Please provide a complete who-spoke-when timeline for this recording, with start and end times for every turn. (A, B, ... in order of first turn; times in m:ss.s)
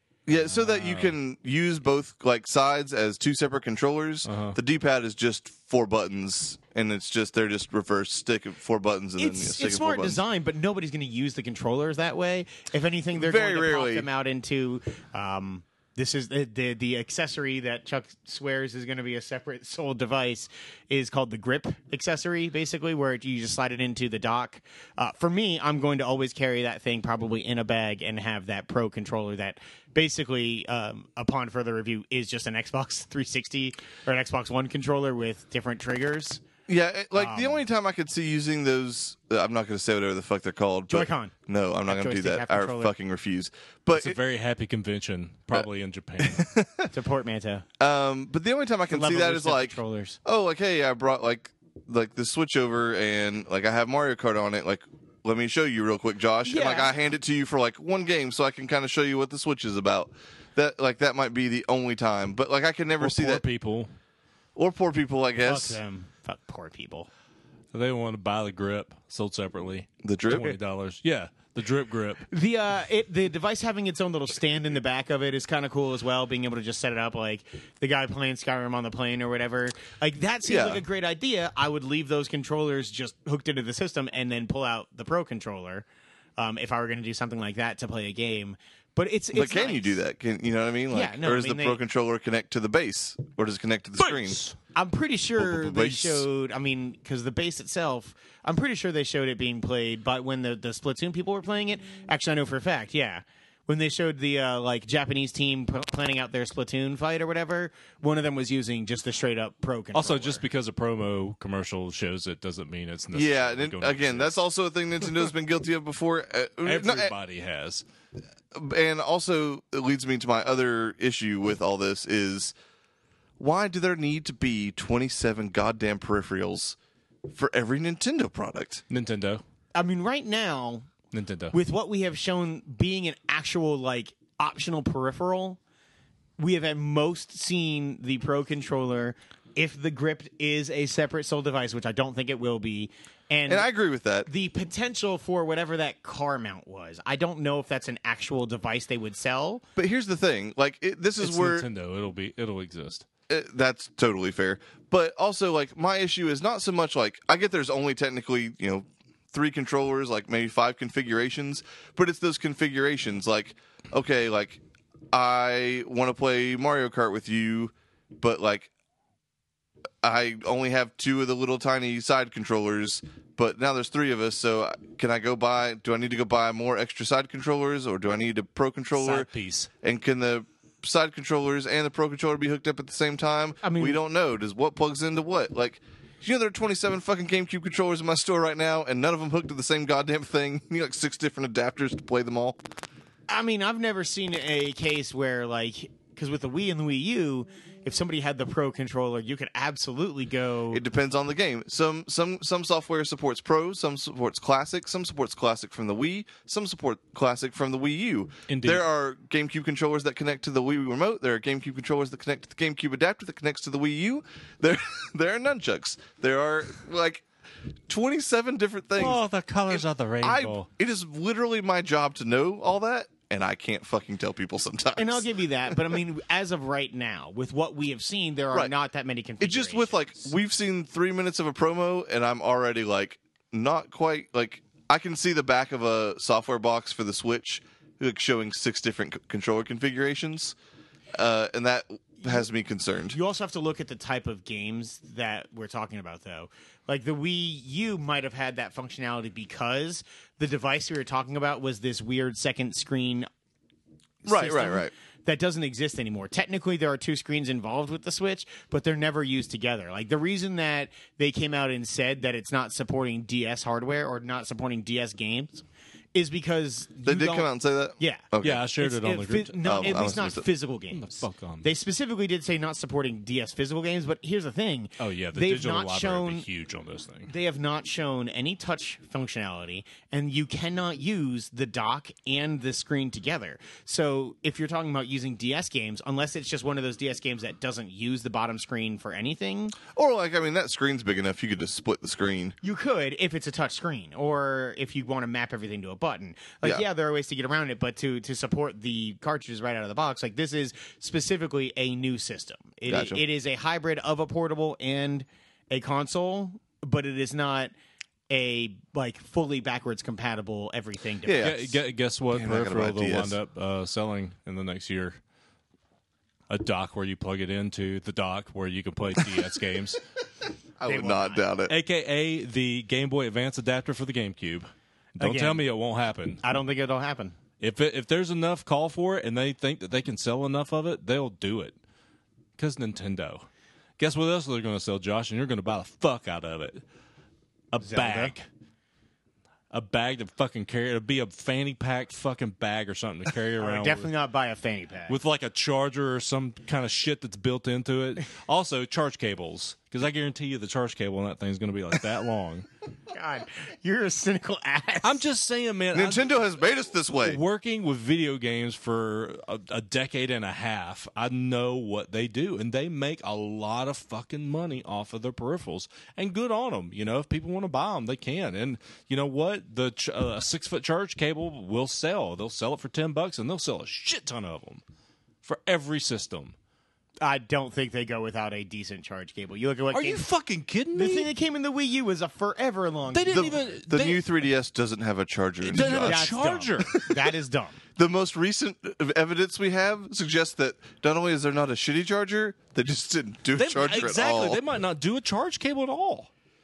0:00.3-0:10.2 A
0:00.5-0:01.1 B
0:04.2-0:04.6 B
0:09.2-0:36.4 C
0:13.1-0:14.1 A
0:36.7-0:44.2 A
0:37.1-0:37.6 C
0:40.9-0:41.3 C
0:41.9-0:42.9 C
0:43.9-0:46.5 B
0:46.2-0:46.9 A
0:46.9-0:47.6 C
0:47.8-1:03.4 A
0:48.9-0:50.2 C
0:56.4-0:56.9 C
1:03.0-1:03.9 B
1:04.6-1:05.8 A
1:05.4-1:07.1 C
1:07.7-1:12.2 B
1:10.0-1:10.6 A
1:12.3-1:25.8 C
1:20.4-1:20.8 A
1:26.4-1:30.0 C
1:29.3-1:34.4 A
1:30.9-1:31.8 C
1:34.7-1:50.4 C
1:35.4-1:36.3 A
1:49.9-1:54.4 B
1:53.1-1:57.1 A
1:56.6-1:57.8 B
1:58.5-2:02.5 A
2:03.4-2:06.8 A
2:07.3-2:08.8 A
2:08.9-2:09.4 B
2:09.7-2:10.9 C
2:11.1-2:11.5 B
2:11.5-2:15.6 C
2:16.4-2:23.7 C
2:23.5-2:24.3 A
2:24.2-2:29.6 C
2:29.8-2:31.7 A
2:31.2-2:33.0 B
2:33.3-2:44.6 A
2:45.1-2:48.7 A
2:50.0-2:59.3 A
2:58.9-2:59.7 B
2:59.8-3:12.6 A
3:03.6-3:04.0 C
3:13.3-3:20.8 C
3:20.7-3:37.2 A
3:28.5-3:28.8 B
3:37.9-3:45.7 A
3:39.0-3:40.7 B
3:45.0-3:50.3 C
3:49.4-4:00.6 A
4:01.1-4:03.2 A
4:03.1-4:13.3 C
4:14.2-4:28.3 C
4:14.2-4:14.9 A
4:27.0-4:28.7 A
4:28.4-4:30.2 B
4:28.8-4:36.4 C
4:29.6-4:30.4 A
4:30.9-4:31.7 B
4:35.0-4:37.3 B
4:37.3-4:49.8 C
4:49.9-4:52.6 A
4:52.6-5:07.7 C
5:02.9-5:03.2 A
5:08.3-5:11.7 C
5:11.2-5:11.7 A
5:11.4-5:15.2 B
5:12.3-5:13.4 A
5:16.5-5:20.0 B
5:20.8-5:21.7 A
5:20.8-5:21.4 C
5:21.7-5:26.4 B
5:25.2-5:25.7 C
5:26.4-5:27.4 C
5:27.6-5:31.8 B
5:32.6-5:33.4 B
5:34.0-5:36.8 B
5:37.7-5:38.4 B
5:37.8-5:38.3 C
5:39.7-5:44.1 B
5:43.6-5:45.2 C
5:45.1-5:52.7 B
5:53.1-5:55.2 C
5:55.0-5:56.3 B
5:55.9-5:57.4 A
5:57.2-6:14.8 B
6:15.4-6:16.5 B
6:17.2-6:20.2 C
6:19.9-6:21.3 B
6:20.9-6:23.6 C
6:23.1-6:24.2 B
6:23.3-6:27.1 A
6:25.7-6:27.0 B
6:25.7-6:27.8 C
6:28.0-6:34.6 A
6:33.6-6:36.3 B